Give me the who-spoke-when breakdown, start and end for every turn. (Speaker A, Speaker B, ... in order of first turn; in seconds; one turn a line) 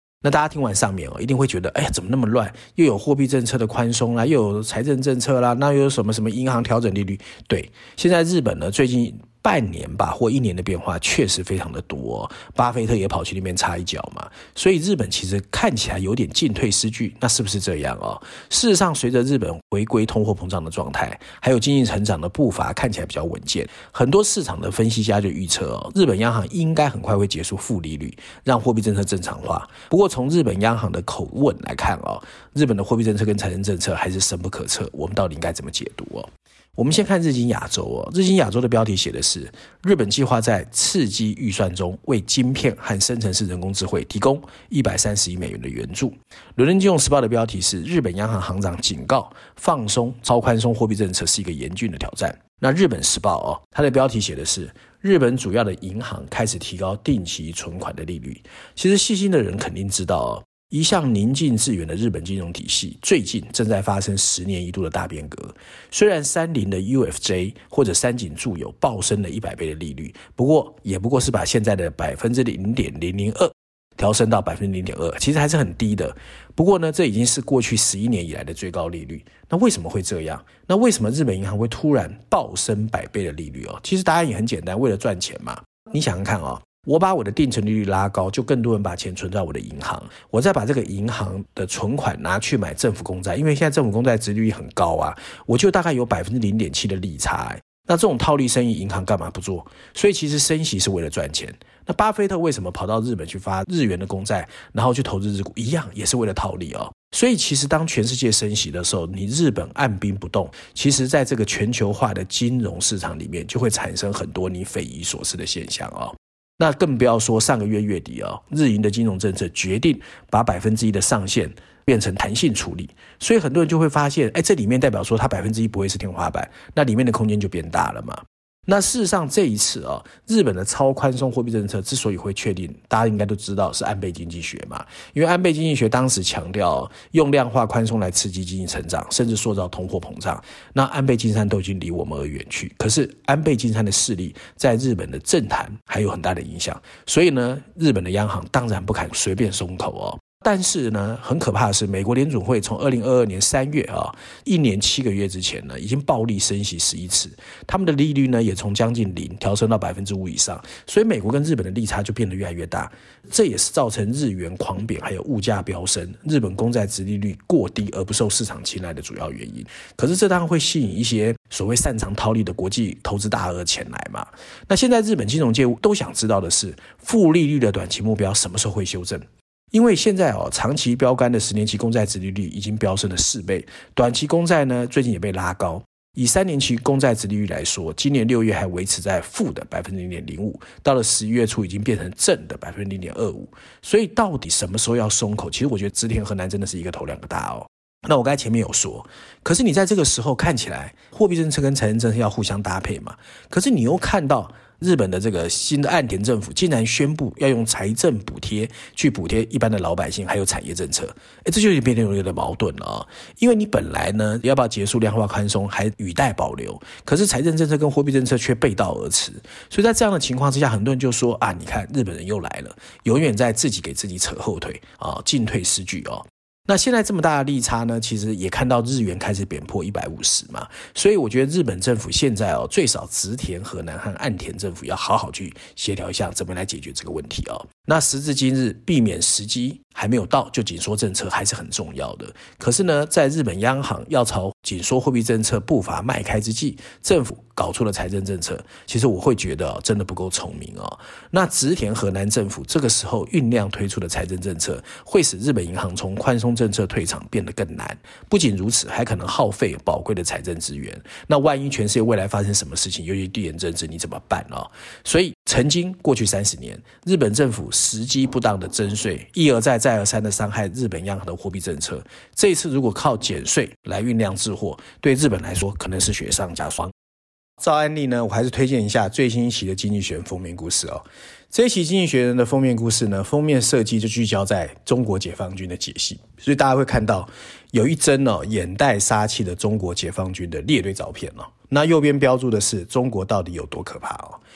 Speaker A: 0.2-276.9
Speaker A: 277.6-294.4